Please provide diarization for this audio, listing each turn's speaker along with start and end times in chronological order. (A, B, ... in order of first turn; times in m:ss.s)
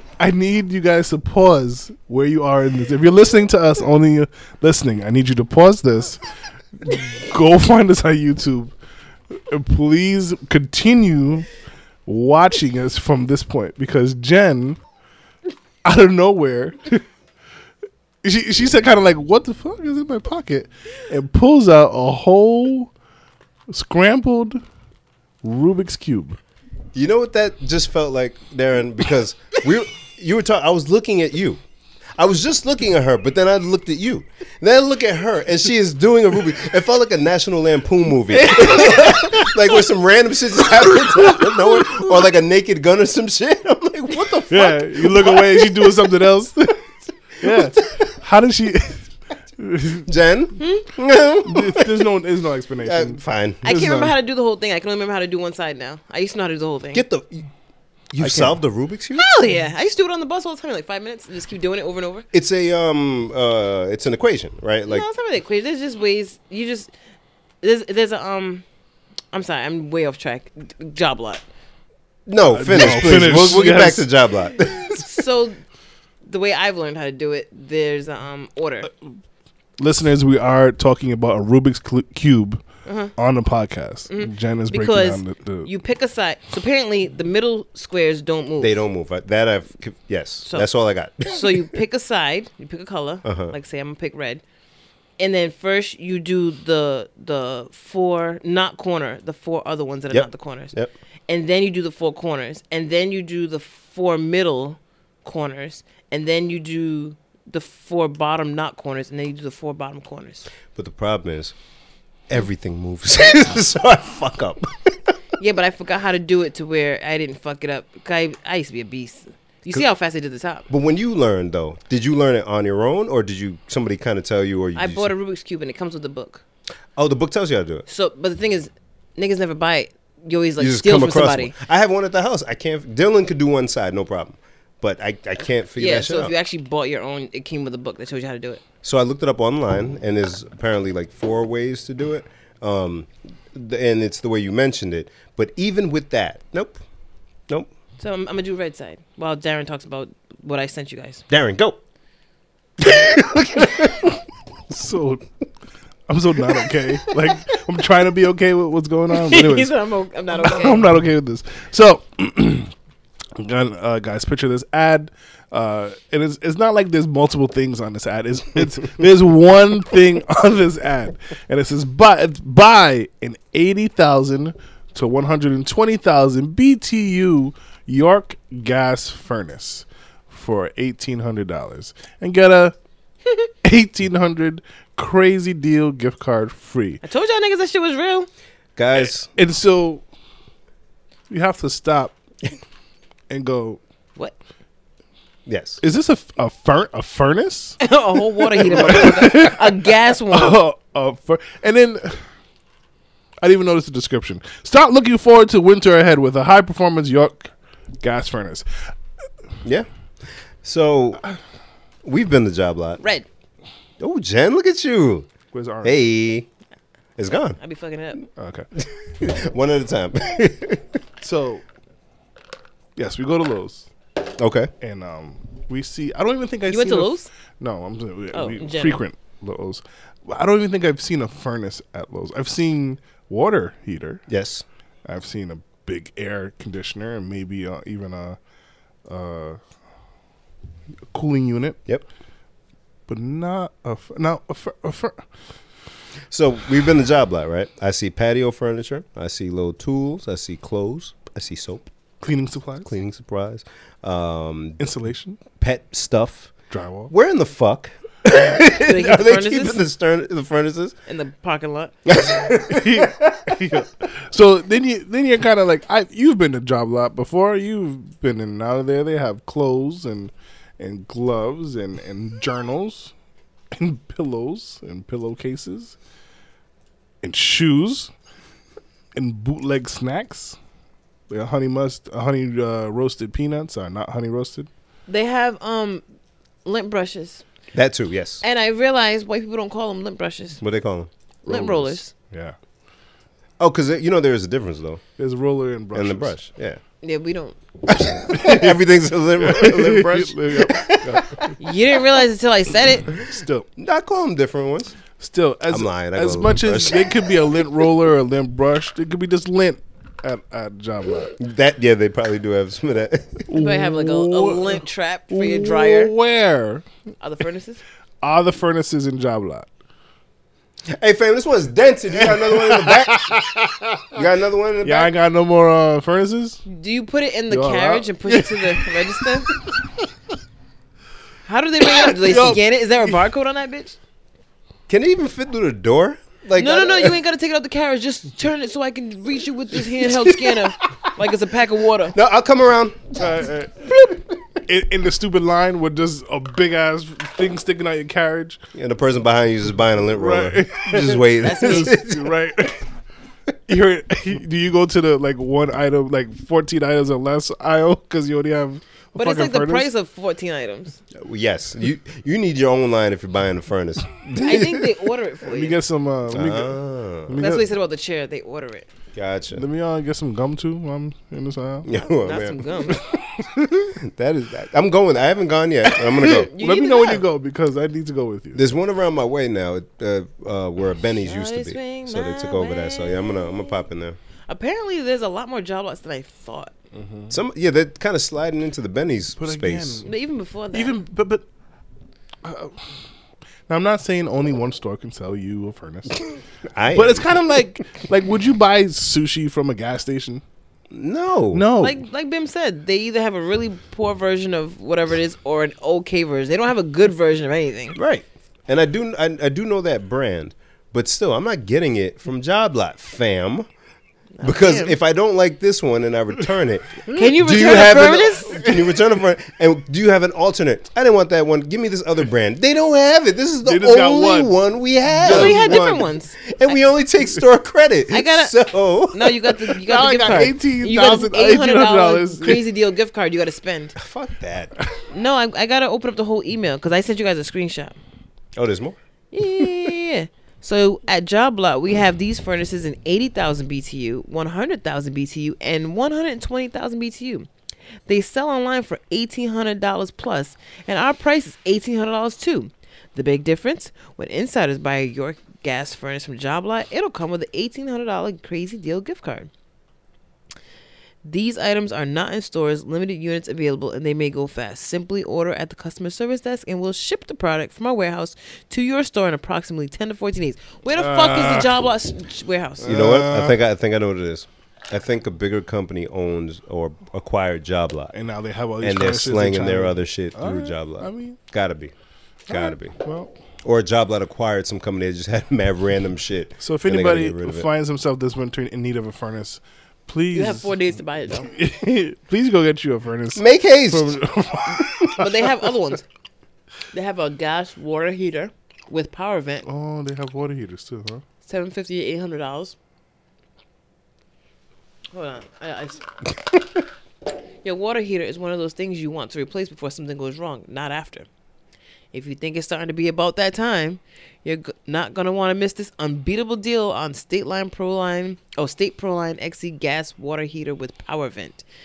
0:00.2-0:06.2 A
0:06.8-0:08.7 A
0:09.3-0:11.5 A
0:12.1-0:14.8 A
0:15.8-0:17.0 A
0:18.2-0:22.9 A
0:23.7-0:24.6 A
0:25.4-0:26.4 A
0:26.9-0:31.6 B
0:32.2-0:46.0 B
0:38.3-0:39.5 C
0:44.5-0:50.1 A
0:50.1-0:52.0 B
0:50.6-0:50.9 C
0:51.4-0:54.1 A
0:52.8-0:53.6 B
0:53.6-0:57.0 C
0:56.9-0:57.5 B
0:58.1-0:59.3 B
0:58.2-0:58.6 A
0:59.2-1:02.2 C
1:02.3-1:05.1 B
1:04.8-1:06.9 C
1:07.6-1:08.6 C
1:09.3-1:11.4 C
1:12.3-1:15.0 B
1:12.5-1:14.1 A
1:14.9-1:15.6 C
1:16.2-1:18.9 C
1:18.8-1:19.2 A
1:19.8-1:22.6 A
1:22.8-1:23.1 C
1:23.2-1:25.7 A
1:24.1-1:28.8 C
1:28.6-1:31.8 B
1:31.2-1:34.4 C
1:33.2-1:33.5 B
1:35.2-1:40.8 C
1:40.1-1:40.9 B
1:41.3-1:50.5 C
1:50.7-1:51.6 B
1:52.3-1:55.2 B
1:55.4-2:00.7 C
2:00.7-2:05.1 B
2:04.8-2:06.4 C
2:07.0-2:07.8 B
2:07.9-2:11.5 C
2:10.6-2:16.3 B
2:15.8-2:18.6 C
2:18.8-2:26.8 B
2:28.0-2:31.2 C
2:31.3-2:31.8 B
2:32.8-2:34.2 B
2:34.7-2:35.2 A
2:36.1-2:39.7 A
2:39.2-2:40.9 C
2:40.4-2:42.7 A
2:43.4-3:02.8 A
3:03.6-3:07.0 A
3:07.0-3:08.3 C
3:08.8-3:09.3 B
3:09.4-3:10.0 A
3:11.3-3:12.2 A
3:13.3-3:13.8 A
3:15.5-3:15.8 B
3:15.8-3:17.8 A
3:17.8-3:20.6 C
3:18.6-3:19.7 A
3:20.3-3:22.3 A
3:23.4-3:28.9 A
3:29.6-3:31.2 B
3:32.0-3:33.0 B
3:33.0-3:33.3 C
3:34.0-3:35.3 B
3:35.5-3:36.0 A
3:35.8-3:36.5 B
3:37.2-3:37.6 B
3:37.6-3:38.2 C
3:38.4-3:38.7 A
3:38.8-3:41.0 B
3:41.2-3:41.6 A
3:43.0-3:43.9 A
3:44.4-3:44.7 B
3:44.8-3:54.2 A
3:46.7-3:47.3 C
3:48.3-3:49.0 C
3:54.3-3:54.6 B
3:55.0-3:58.4 A
3:59.1-3:59.6 A
4:01.1-4:01.8 A
4:03.1-4:05.2 A
4:06.3-4:11.9 B
4:12.2-4:12.9 A
4:12.8-4:14.8 B
4:14.8-4:15.4 A
4:15.6-4:16.5 B
4:16.7-4:17.1 A
4:17.1-4:21.0 B
4:18.7-4:19.8 C
4:21.1-4:21.9 C
4:22.1-4:23.8 B
4:22.7-4:33.1 A
4:33.7-4:36.0 A
4:37.2-4:38.1 A
4:39.2-4:40.6 A
4:41.3-4:44.7 A
4:45.1-4:46.0 C
4:46.6-4:47.4 C
4:47.7-4:48.4 B
4:48.4-4:50.6 C
4:50.6-4:51.1 B
4:51.5-4:52.1 C
4:51.5-4:52.6 A
4:53.6-4:55.0 B
4:55.2-4:56.3 A
4:55.9-4:56.8 B
4:57.0-4:57.6 C
4:58.0-5:01.5 B
4:58.3-4:58.8 A
4:59.4-5:01.5 A
5:01.6-5:03.1 C
5:03.2-5:03.7 A
5:03.8-5:05.0 B
5:05.2-5:11.4 A
5:05.7-5:07.7 B
5:11.4-5:13.5 B
5:13.5-5:16.9 A
5:13.5-5:16.1 C
5:17.2-5:17.8 C
5:18.2-5:19.7 A
5:20.9-5:23.3 B
5:22.2-5:24.2 A
5:24.1-5:25.1 B
5:24.8-5:26.6 A
5:26.6-5:29.5 C
5:27.5-5:30.1 A
5:31.5-5:34.0 C
5:32.0-5:32.6 A
5:34.9-5:37.2 B
5:36.6-5:42.2 C
5:42.1-5:43.3 B
5:43.2-5:44.0 A
5:44.6-5:48.6 A
5:48.7-5:52.3 B
5:50.1-5:52.9 A
5:51.4-5:52.0 C
5:53.7-5:59.9 A
5:59.1-6:01.0 C
6:01.1-6:04.9 B
6:04.4-6:05.8 C
6:05.5-6:07.7 A
6:06.3-6:07.3 B
6:07.4-6:08.9 C
6:09.2-6:09.6 B
6:09.5-6:11.9 A
6:11.8-6:12.6 B
6:12.2-6:13.0 C
6:13.5-6:13.9 A
6:14.0-6:16.5 B
6:16.1-6:18.6 A
6:16.4-6:17.2 C
6:18.6-6:24.2 B
6:21.2-6:23.8 C
6:24.5-6:26.7 C
6:26.9-6:27.3 A
6:27.3-6:30.0 B
6:29.4-6:30.1 A
6:30.0-6:31.0 C
6:30.7-6:31.5 A
6:32.4-6:33.1 A
6:33.7-6:36.3 A
6:36.7-6:37.6 B
6:36.9-6:40.4 A
6:40.9-6:41.7 B
6:41.5-6:42.0 A
6:41.8-6:48.0 C
6:48.0-6:53.7 B
6:54.4-6:55.0 C
6:54.4-7:09.6 B
6:57.1-6:58.6 C
6:57.2-6:57.7 A
6:58.5-6:58.8 A
7:03.6-7:04.5 A
7:05.2-7:05.8 A
7:05.2-7:06.8 C
7:08.1-7:14.0 C
7:09.9-7:12.6 A
7:14.0-7:14.7 B
7:15.1-7:18.0 C
7:18.6-7:19.0 B
7:19.3-7:27.5 C
7:28.1-7:39.5 C
7:41.2-7:52.9 C
7:50.9-7:51.8 A
7:52.8-7:53.6 A
7:52.8-7:58.1 B
7:58.1-8:01.4 A
7:58.8-8:01.9 B
8:02.5-8:03.0 B
8:02.5-8:03.3 A
8:03.6-8:07.7 B
8:06.6-8:10.7 A
8:10.3-8:11.5 C
8:11.4-8:15.2 A
8:13.4-8:14.2 B
8:14.8-8:15.1 B
8:15.1-8:16.1 C
8:16.9-8:19.6 C
8:19.6-8:21.2 A
8:21.4-8:22.8 C
8:25.1-8:26.3 C
8:27.6-8:31.3 C
8:32.1-8:41.6 C